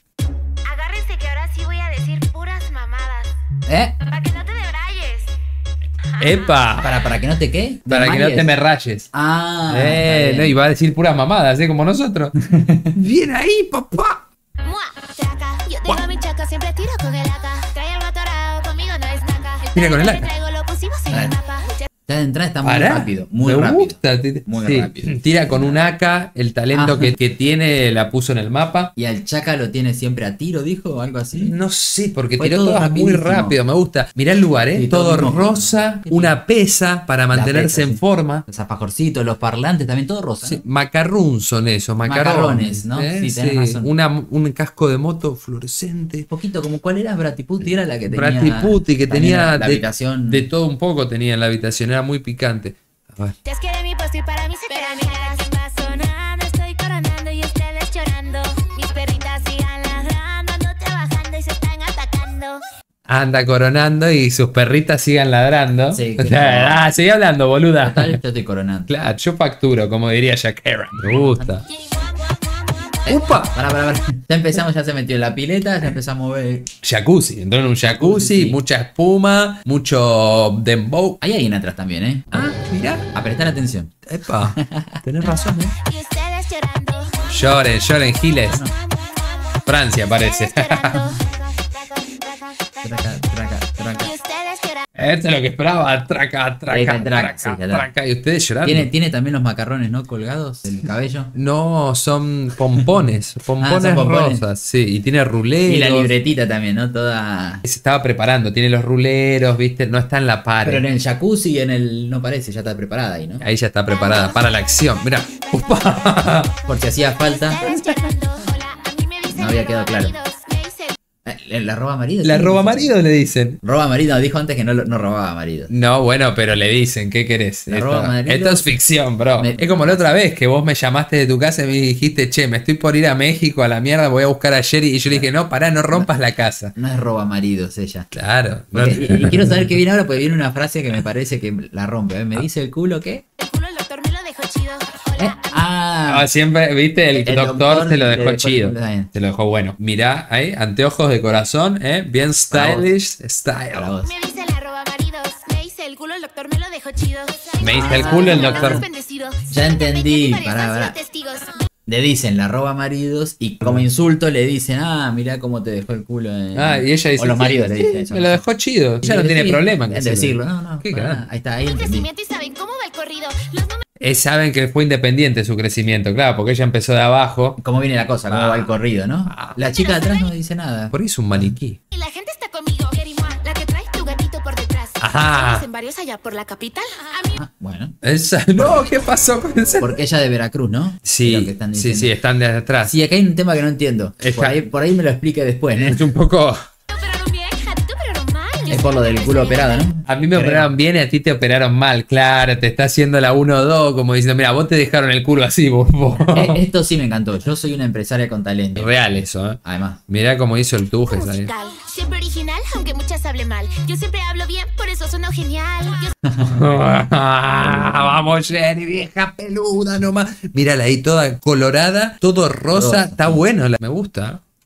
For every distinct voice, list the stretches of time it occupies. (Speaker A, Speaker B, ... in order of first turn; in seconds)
Speaker A: 0.6-3.4, 4.0-5.3, 6.1-6.9, 14.6-21.9, 53.5-62.6, 85.8-87.4, 88.9-92.2, 94.0-94.9, 113.9-114.6, 117.2-121.0, 143.4-145.7, 154.0-161.6, 171.7-173.8, 179.7-180.3, 181.9-187.4, 196.9-199.9, 211.1-216.1
Speaker B: 3.7-4.0, 6.8-8.5, 9.1-10.6, 12.4-12.9, 21.1-21.4, 22.1-25.8, 26.7-27.1, 29.0-31.5, 32.4-33.6, 34.7-36.4, 37.3-40.6, 42.0-43.9, 46.3-50.5, 65.9-66.8, 67.8-68.9, 71.0-71.6, 73.1-76.7, 77.9-78.6, 81.2-82.5, 83.1-83.9, 84.5-85.3, 90.9-91.2, 92.8-94.1, 96.7-97.9, 98.6-101.3, 103.6-104.5, 105.7-107.7, 110.6-113.5, 116.7-117.7, 119.3-120.2, 121.2-122.9, 123.6-125.7, 127.7-128.7, 129.4-130.0, 135.1-135.3, 136.8-138.1, 138.7-143.2, 145.2-146.3, 147.1-149.1, 152.5-152.9, 153.7-154.1, 157.7-158.8, 159.5-161.0, 161.9-168.4, 169.0-172.1, 177.6-181.5, 187.4-188.0, 188.6-188.8, 189.8-192.1, 192.8-196.1, 198.7-200.7, 206.3-210.0, 216.2-216.7, 217.6-218.2, 222.7-223.5
Speaker C: 6.2-6.9, 7.9-9.1, 9.7-12.3, 13.0-14.2, 19.7-20.3, 22.6-28.9, 31.4-38.4, 40.4-46.3, 48.0-53.4, 63.1-68.2, 68.9-71.6, 73.1-73.5, 76.8-81.2, 82.3-83.1, 84.1-85.7, 87.3-88.6, 89.7-91.0, 95.0-98.9, 101.3-106.1, 107.7-110.8, 113.4-116.5, 117.7-118.0, 122.2-123.6, 125.7-136.7, 138.1-139.8, 146.1-153.9, 157.6-158.8, 166.6-171.2, 174.0-177.6, 178.3-178.8, 179.3-179.6, 180.9-181.8, 185.0-185.7, 188.0-190.0, 191.1-193.0, 194.2-194.6, 195.8-196.6, 200.1-206.6, 208.8-211.5, 216.4-224.4